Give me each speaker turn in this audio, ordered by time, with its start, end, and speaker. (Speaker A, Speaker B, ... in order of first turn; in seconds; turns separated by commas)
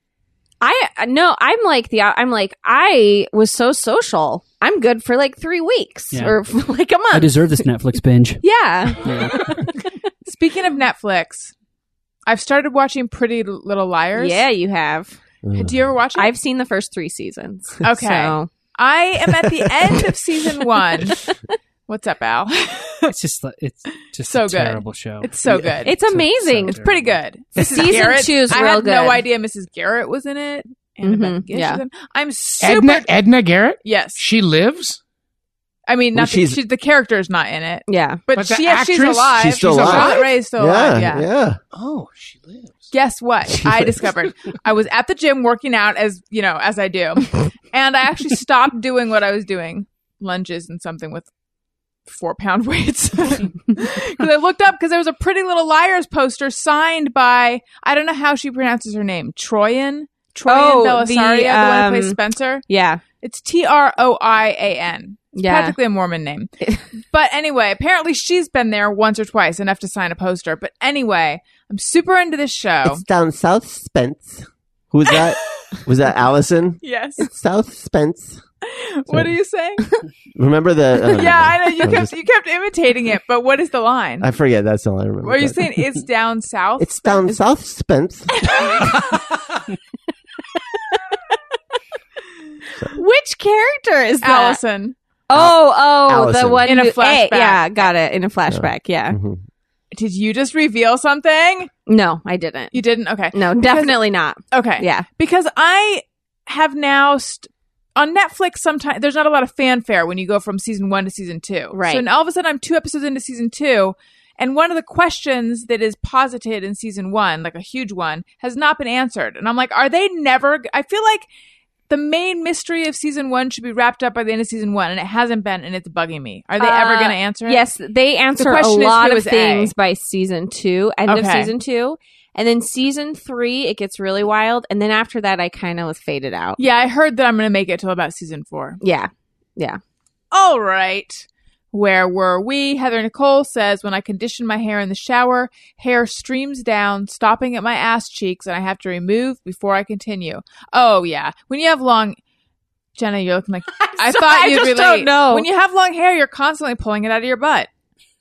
Speaker A: 0.6-7.5, Speaker B: 6.1-6.4, Speaker B: 7.1-8.4, Speaker A: 8.4-9.5, Speaker B: 9.0-9.6, Speaker C: 10.2-11.5, Speaker C: 12.3-14.4, Speaker A: 14.2-15.2, Speaker D: 15.4-15.8, Speaker C: 15.6-16.3, Speaker A: 16.2-18.5, Speaker C: 17.8-21.2, Speaker C: 21.9-23.1, Speaker B: 23.1-27.2, Speaker C: 24.2-25.9, Speaker A: 25.8-26.8, Speaker C: 26.7-33.1, Speaker A: 27.6-29.2, Speaker A: 31.0-31.8, Speaker E: 32.6-35.0, Speaker C: 33.8-34.2, Speaker C: 35.9-41.3, Speaker D: 36.1-36.6, Speaker A: 37.9-38.2, Speaker E: 38.3-40.3, Speaker D: 39.4-41.6, Speaker E: 41.7-42.8, Speaker C: 42.9-51.3, Speaker D: 43.6-43.9, Speaker C: 52.1-62.6, Speaker A: 60.5-63.0, Speaker C: 63.2-73.0, Speaker A: 65.3-65.8, Speaker D: 72.8-78.4, Speaker C: 75.1-75.7, Speaker C: 76.8-77.3, Speaker C: 78.6-79.9, Speaker D: 80.4-82.1, Speaker C: 81.0-84.3, Speaker D: 84.2-85.8, Speaker C: 85.2-87.4, Speaker D: 86.8-88.5, Speaker C: 88.4-88.9, Speaker A: 92.9-94.6, Speaker C: 94.2-95.0, Speaker A: 95.3-99.2, Speaker D: 95.3-96.7, Speaker C: 96.6-97.9, Speaker D: 98.5-99.4, Speaker C: 99.9-101.7, Speaker A: 101.9-102.8, Speaker C: 102.7-121.3, Speaker A: 103.3-105.1, Speaker A: 111.7-112.0, Speaker C: 121.9-127.6, Speaker A: 126.6-136.6, Speaker C: 128.4-129.7, Speaker C: 131.1-131.5, Speaker C: 136.6-138.8, Speaker A: 138.8-139.8, Speaker C: 140.3-152.2, Speaker C: 153.0-157.7, Speaker A: 153.8-155.5